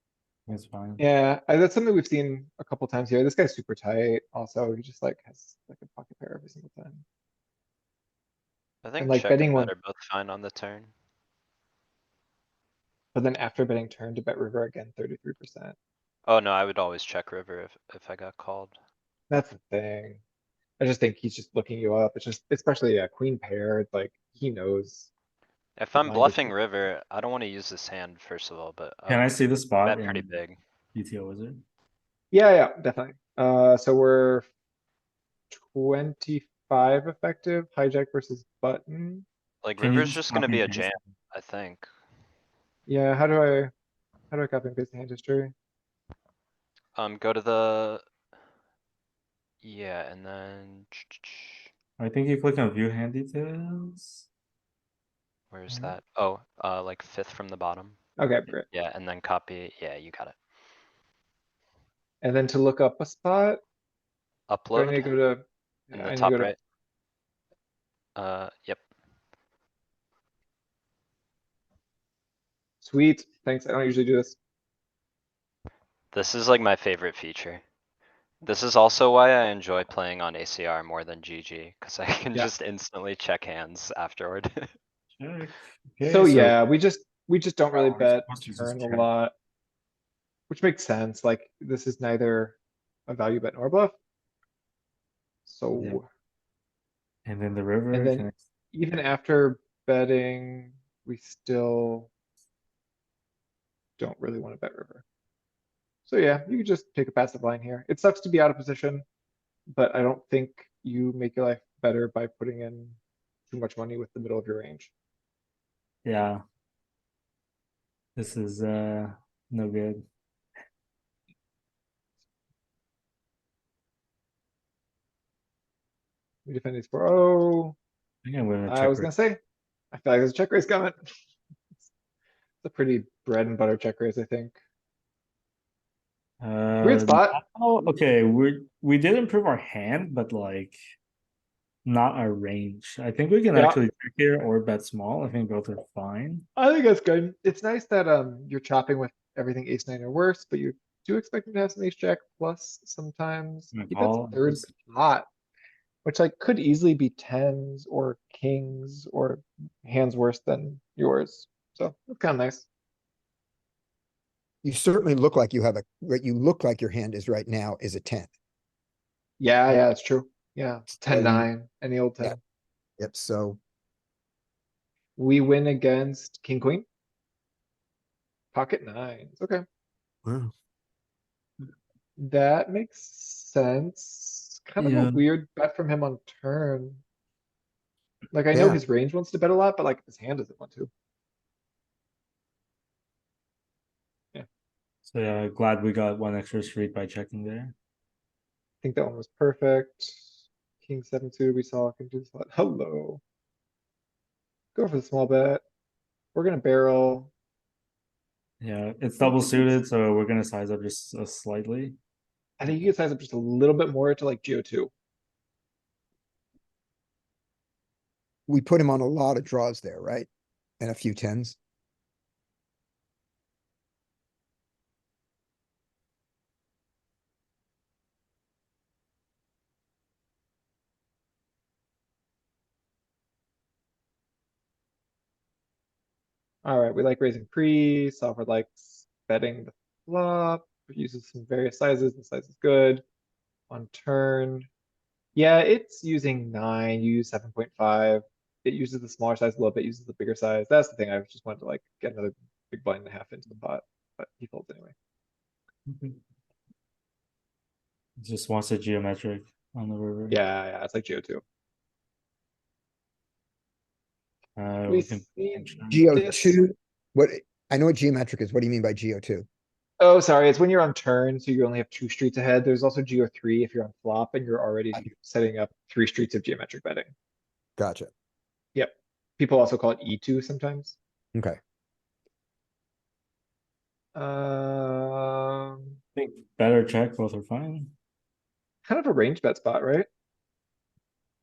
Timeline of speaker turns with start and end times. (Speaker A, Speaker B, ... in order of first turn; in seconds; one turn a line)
Speaker A: 0.5-1.0
Speaker B: 1.0-7.0
Speaker C: 8.8-10.9
Speaker B: 9.0-9.7
Speaker B: 13.1-15.8
Speaker C: 16.3-18.8
Speaker B: 19.3-20.2
Speaker B: 20.8-25.1
Speaker C: 25.8-30.6
Speaker B: 26.0-26.5
Speaker A: 29.1-30.3
Speaker A: 30.9-31.6
Speaker B: 32.3-34.5
Speaker B: 35.5-39.3
Speaker C: 39.6-41.9
Speaker A: 39.8-40.9
Speaker B: 42.9-43.7
Speaker B: 44.3-45.5
Speaker C: 47.0-48.0
Speaker C: 49.6-51.7
Speaker A: 52.0-54.3
Speaker C: 55.5-58.0
Speaker B: 55.7-56.0
Speaker B: 58.2-58.7
Speaker C: 58.7-60.4
Speaker B: 62.2-63.6
Speaker C: 64.5-65.1
Speaker B: 64.7-66.5
Speaker C: 65.9-66.6
Speaker C: 68.2-68.8
Speaker B: 72.8-74.4
Speaker C: 76.1-77.6
Speaker C: 78.4-84.7
Speaker A: 85.2-86.6
Speaker B: 86.0-89.3
Speaker A: 87.7-89.1
Speaker B: 90.5-94.0
Speaker B: 95.5-96.0
Speaker A: 97.2-98.4
Speaker B: 97.9-102.1
Speaker B: 104.0-105.0
Speaker B: 106.0-109.0
Speaker B: 109.7-113.0
Speaker B: 113.5-114.9
Speaker A: 116.0-116.4
Speaker A: 118.2-120.0
Speaker B: 126.5-127.8
Speaker A: 128.2-129.1
Speaker B: 128.7-129.4
Speaker B: 129.9-131.1
Speaker B: 132.6-134.6
Speaker A: 136.4-140.8
Speaker B: 136.8-137.4
Speaker A: 141.8-146.5
Speaker B: 143.5-143.8
Speaker B: 146.6-155.3
Speaker A: 153.7-154.7
Speaker B: 156.0-162.7
Speaker D: 164.6-168.3
Speaker B: 169.4-172.4
Speaker D: 171.0-171.5
Speaker D: 173.0-173.6
Speaker B: 175.2-176.9
Speaker B: 178.5-179.6
Speaker D: 180.2-180.5
Speaker B: 182.2-187.0
Speaker A: 184.8-185.2
Speaker B: 188.3-190.9
Speaker D: 188.5-188.8
Speaker A: 195.1-197.8
Speaker B: 198.8-200.2
Speaker B: 200.8-203.2
Speaker B: 204.8-205.6
Speaker B: 206.3-207.3
Speaker A: 208.6-212.0
Speaker B: 209.2-209.8
Speaker B: 212.6-214.9
Speaker D: 218.5-220.3
Speaker D: 220.8-221.6
Speaker B: 236.6-243.0
Speaker B: 243.7-244.7
Speaker B: 245.3-254.9
Speaker A: 255.8-256.2
Speaker A: 258.2-260.4
Speaker B: 260.3-261.4
Speaker A: 264.6-266.1
Speaker B: 264.9-266.6
Speaker D: 265.9-269.4
Speaker B: 270.0-277.1
Speaker D: 277.8-278.1
Speaker B: 278.8-281.0
Speaker B: 284.1-285.9
Speaker A: 286.1-287.9
Speaker B: 288.8-290.1